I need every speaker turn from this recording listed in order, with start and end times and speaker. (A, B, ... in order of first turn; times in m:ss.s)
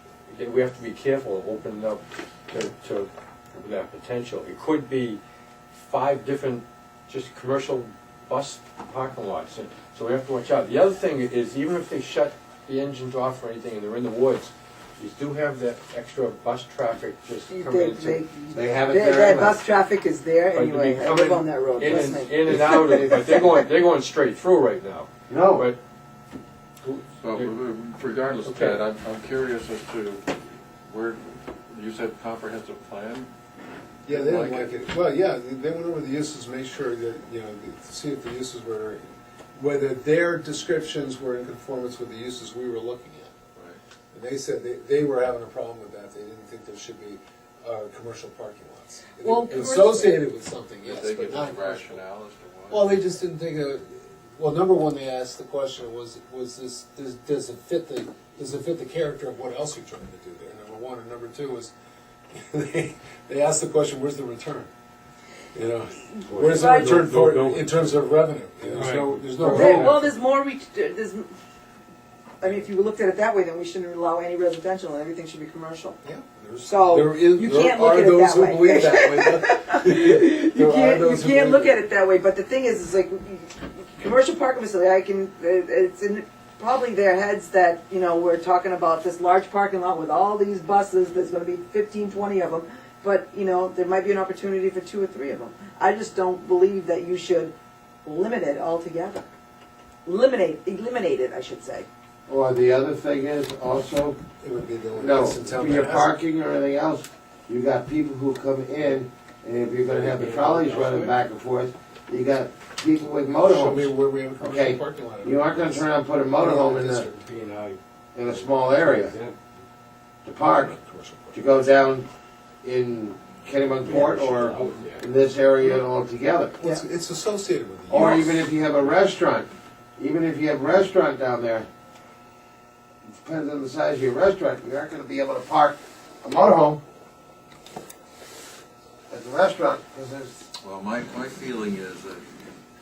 0:00.3-0:05.2 A
0:05.8-0:18.2 A
0:17.5-0:23.5 B
0:18.5-0:19.6 C
0:20.5-0:25.8 A
0:21.8-0:22.7 C
0:25.3-0:25.7 C
0:26.8-0:27.5 A
0:27.2-0:30.2 D
0:28.4-0:28.8 A
0:30.8-0:33.3 D
0:34.0-0:34.7 D
0:34.0-0:39.0 E
0:39.6-0:43.4 E
0:44.1-0:52.0 E
0:49.2-0:50.2 B
0:50.8-0:53.0 D
0:52.7-1:01.7 E
1:02.3-1:04.7 E
1:05.5-1:10.0 E
1:06.2-1:08.0 A
1:06.5-1:07.0 B
1:08.6-1:10.1 A
1:09.5-1:11.3 B
1:12.4-1:16.0 B
1:16.0-1:21.8 E
1:16.6-1:37.5 B
1:38.0-1:39.3 B
1:40.0-1:41.9 B
1:42.3-1:44.2 C
1:44.4-1:46.1 E
1:45.0-1:57.0 C
1:49.9-1:51.1 A
1:53.4-1:57.1 E
1:56.7-1:59.4 A
1:58.1-1:59.1 C
2:00.2-2:00.7 C
2:00.5-2:01.4 E
2:01.3-2:02.1 C
2:02.6-2:06.6 C
2:03.8-2:05.1 A
2:06.6-2:08.4 E
2:07.9-2:11.7 C
2:13.1-2:16.8 C
2:19.1-2:20.4 C
2:20.6-2:22.2 D